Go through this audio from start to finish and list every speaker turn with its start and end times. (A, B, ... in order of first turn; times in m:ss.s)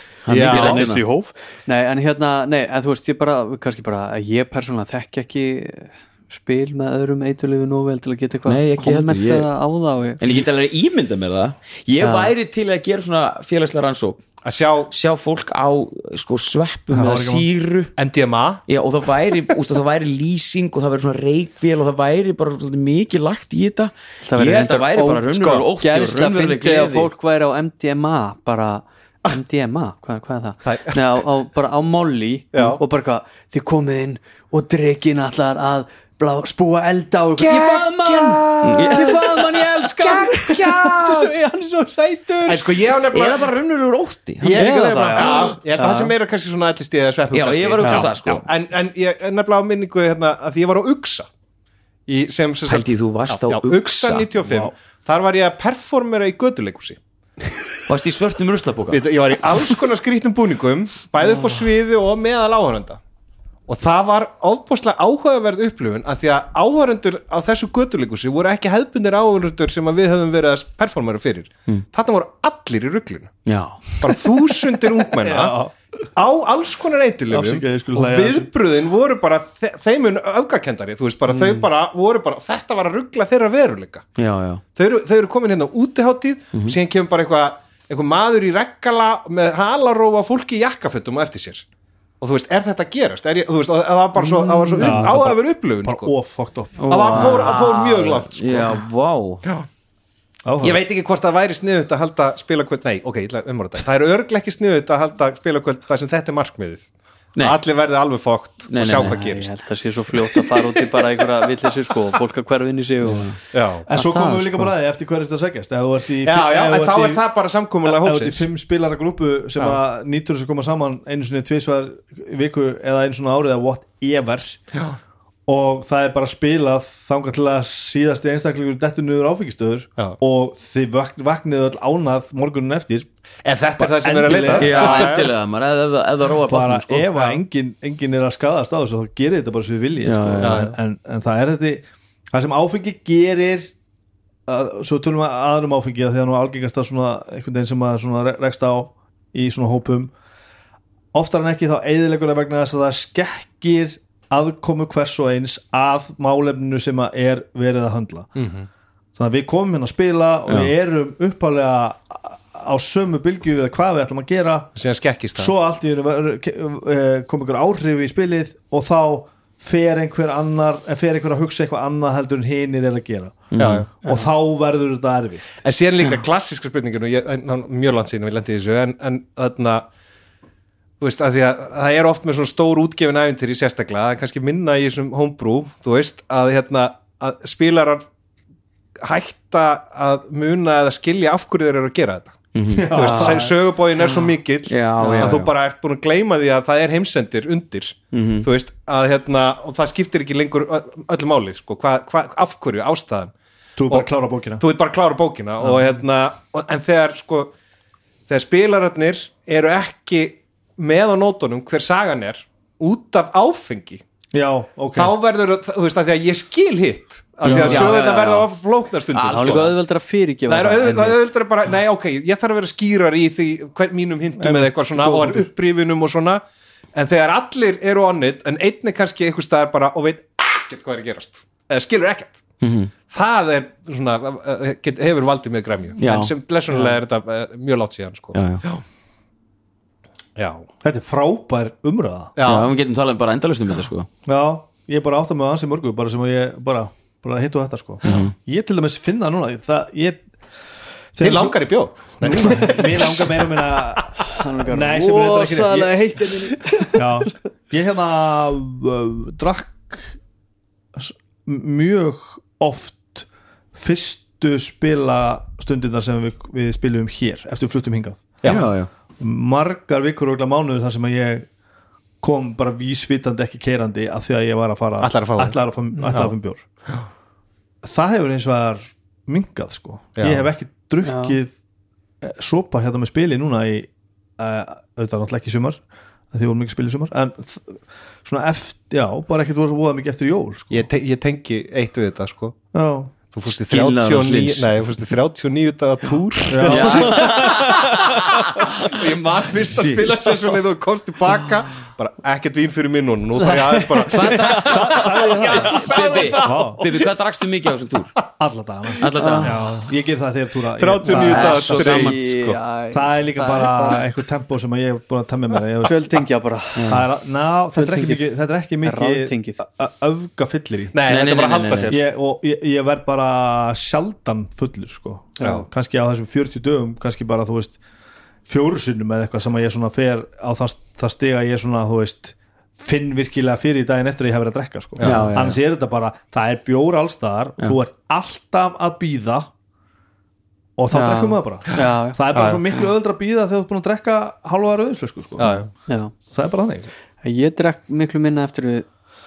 0:00.2-0:01.0 A
0:00.3-0:00.9 B
0:00.3-0:10.3 C
0:08.5-0:09.5 A
0:10.2-0:14.2 A
0:12.0-0:12.3 C
0:14.4-0:14.9 B
0:14.9-0:17.9 A
0:16.9-0:17.5 D
0:18.0-0:18.6 B
0:18.7-0:27.1 A
0:24.2-0:42.7 C
0:30.6-0:31.2 B
0:32.5-0:32.8 B
0:37.4-0:41.3 B
0:38.6-0:39.2 A
0:42.4-0:43.6 B
0:43.1-0:45.6 A
0:44.4-0:46.1 C
0:44.5-0:51.3 B
0:47.3-0:48.5 A
0:47.8-0:48.1 C
0:52.1-0:57.0 B
0:52.7-0:54.3 A
0:57.9-0:59.1 A
0:58.9-1:03.0 B
1:03.7-1:13.3 B
1:13.5-1:13.8 A
1:14.0-1:15.6 B
1:15.2-1:16.0 D
1:16.2-1:24.1 B
1:17.3-1:18.5 D
1:24.2-1:24.6 A
1:24.8-1:31.6 B
1:32.2-1:36.1 B
1:34.6-1:35.2 A
1:34.8-1:37.3 D
1:36.8-1:39.4 A
1:36.9-1:38.8 B
1:40.5-1:40.8 D
1:40.6-1:46.9 B
1:47.4-1:49.5 B
1:48.7-1:49.2 A
1:48.9-1:53.3 C
1:53.0-1:53.4 A
1:53.5-1:53.9 B
1:53.9-1:57.2 D
1:53.9-1:54.7 C
1:56.2-1:58.5 B
1:57.8-2:04.6 D
2:05.5-2:13.1 D
2:13.4-2:15.3 B
2:13.8-2:15.1 D
2:14.6-2:17.1 A
2:16.5-2:23.7 D
2:17.1-2:17.4 B
2:20.0-2:20.6 C
2:20.4-2:20.8 B
2:24.5-2:30.1 D
2:31.1-2:38.3 D
2:38.4-2:38.7 B
2:39.2-2:44.7 D
2:40.5-2:40.7 A
2:44.8-2:45.5 B
2:45.4-2:53.5 D
2:53.5-2:53.9 A
2:53.6-2:53.9 B
2:54.0-2:55.6 D
2:54.0-2:54.3 C
2:55.6-2:59.9 B
3:01.0-3:08.0 B
3:09.0-3:23.3 B
3:12.5-3:13.1 A
3:12.7-3:13.6 D
3:13.0-3:13.4 C
3:14.7-3:15.5 A
3:15.0-3:15.4 C
3:18.1-3:18.5 A
3:23.8-3:24.6 D
3:24.6-3:27.5 B
3:28.3-3:34.0 B
3:34.3-3:35.2 D
3:34.9-3:39.7 B
3:37.4-3:38.0 D
3:37.4-3:38.5 A
3:39.1-3:39.8 A
3:39.3-3:41.2 C
3:40.5-3:46.4 B
3:44.4-3:45.5 D
3:46.9-3:52.4 B
3:52.6-3:52.9 A
3:53.1-3:58.8 B
3:56.0-3:56.3 A
3:58.3-3:58.6 A
4:00.4-4:00.7 B
4:00.8-4:02.3 D
4:02.4-4:02.7 B
4:02.4-4:04.1 A
4:04.3-4:10.2 D
4:08.0-4:08.3 A
4:11.2-4:11.7 D
4:11.2-4:13.4 B
4:12.2-4:15.9 D
4:14.3-4:17.1 C
4:17.0-4:20.2 D
4:21.0-4:28.4 D
4:28.4-4:28.7 B
4:28.4-4:28.9 A
4:29.2-4:31.5 D
4:32.2-4:36.6 D
4:35.0-4:35.6 B
4:37.8-4:41.5 D
4:40.2-4:40.5 B
4:41.0-4:41.4 C
4:42.2-4:50.9 D
4:50.7-4:52.6 B
4:52.7-4:53.1 D
4:53.3-4:58.0 B
4:53.7-4:54.8 A
4:56.5-4:57.4 D
4:56.6-4:57.9 C
4:56.7-4:58.9 A
4:58.8-5:07.1 B
4:59.6-5:00.3 A
5:03.4-5:05.1 C
5:04.1-5:08.1 A
5:04.5-5:05.8 D
5:06.4-5:06.8 D
5:08.4-5:12.0 D
5:09.0-5:09.6 A
5:09.2-5:09.6 C
5:10.8-5:12.6 B
5:11.1-5:12.2 A
5:11.1-5:14.0 C
5:12.9-5:16.2 D
5:15.8-5:17.1 C
5:16.8-5:17.0 A
5:16.9-5:21.0 D
5:17.7-5:19.6 C
5:20.9-5:22.0 B
5:21.1-5:22.0 A
5:21.9-5:27.8 D
5:25.4-5:25.7 B
5:28.5-5:39.5 D
5:35.0-5:35.3 B
5:35.0-5:35.6 A
5:40.8-5:45.7 D
5:40.9-5:42.2 C
5:42.3-5:42.6 B
5:45.4-5:45.7 B
5:45.9-5:46.1 C
5:46.3-5:46.9 D
5:47.2-5:48.8 C